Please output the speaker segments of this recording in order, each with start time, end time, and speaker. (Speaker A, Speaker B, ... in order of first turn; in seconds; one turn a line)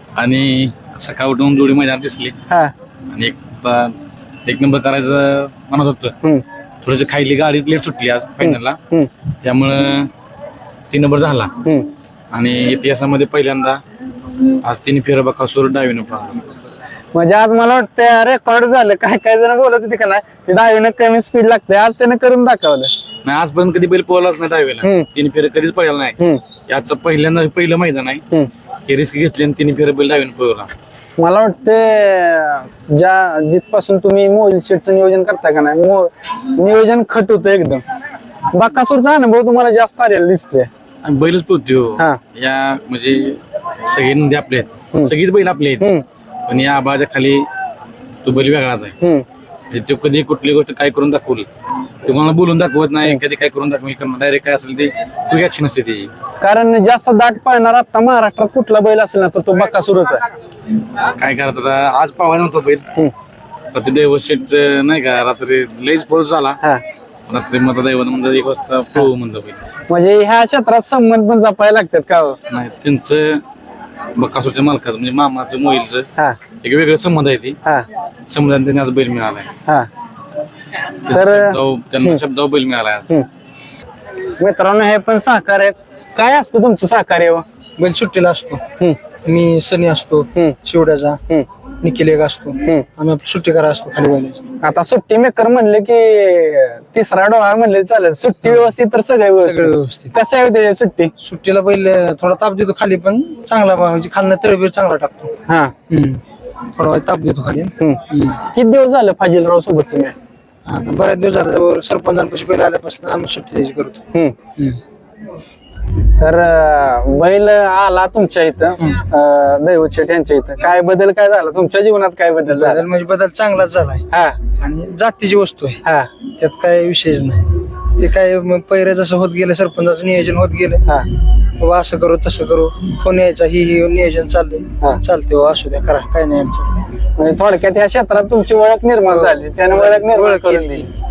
Speaker A: 0.2-2.4
Speaker A: 3.1-6.1
Speaker A: 6.8-8.8
Speaker B: 8.4-9.1
Speaker A: 9.4-10.1
Speaker A: 10.9-11.5
Speaker A: 12.3-13.8
Speaker A: 14.6-16.4
Speaker B: 17.1-22.9
Speaker A: 23.2-28.2
Speaker B: 24.8-25.1
Speaker A: 28.9-30.7
Speaker B: 31.2-37.8
Speaker B: 38.5-40.7
Speaker A: 41.0-45.9
Speaker B: 45.8-46.0
Speaker A: 46.5-47.5
Speaker A: 48.2-49.0
Speaker A: 49.7-51.5
Speaker A: 52.1-56.1
Speaker B: 56.4-60.2
Speaker A: 61.1-62.9
Speaker A: 63.7-66.6
Speaker A: 67.3-69.6
Speaker B: 69.9-72.4
Speaker A: 72.5-73.4
Speaker A: 74.2-76.1
Speaker A: 76.6-77.6
Speaker A: 78.3-79.5
Speaker A: 81.1-83.1
Speaker B: 81.1-82.2
Speaker B: 84.4-87.5
Speaker C: 87.8-88.6
Speaker C: 89.2-91.2
Speaker B: 90.3-90.6
Speaker C: 91.8-94.4
Speaker B: 94.6-101.1
Speaker C: 99.4-100.1
Speaker C: 101.2-105.3
Speaker B: 105.5-105.8
Speaker C: 105.9-106.2
Speaker C: 106.7-108.4
Speaker B: 107.8-110.1
Speaker C: 110.7-114.0
Speaker B: 114.1-114.4
Speaker B: 116.2-122.8
Speaker C: 122.5-125.8
Speaker B: 124.1-124.4
Speaker B: 125.8-126.1
Speaker C: 126.3-130.8
Speaker B: 130.8-131.1
Speaker C: 131.4-136.8
Speaker B: 137.2-140.9
Speaker C: 139.1-140.9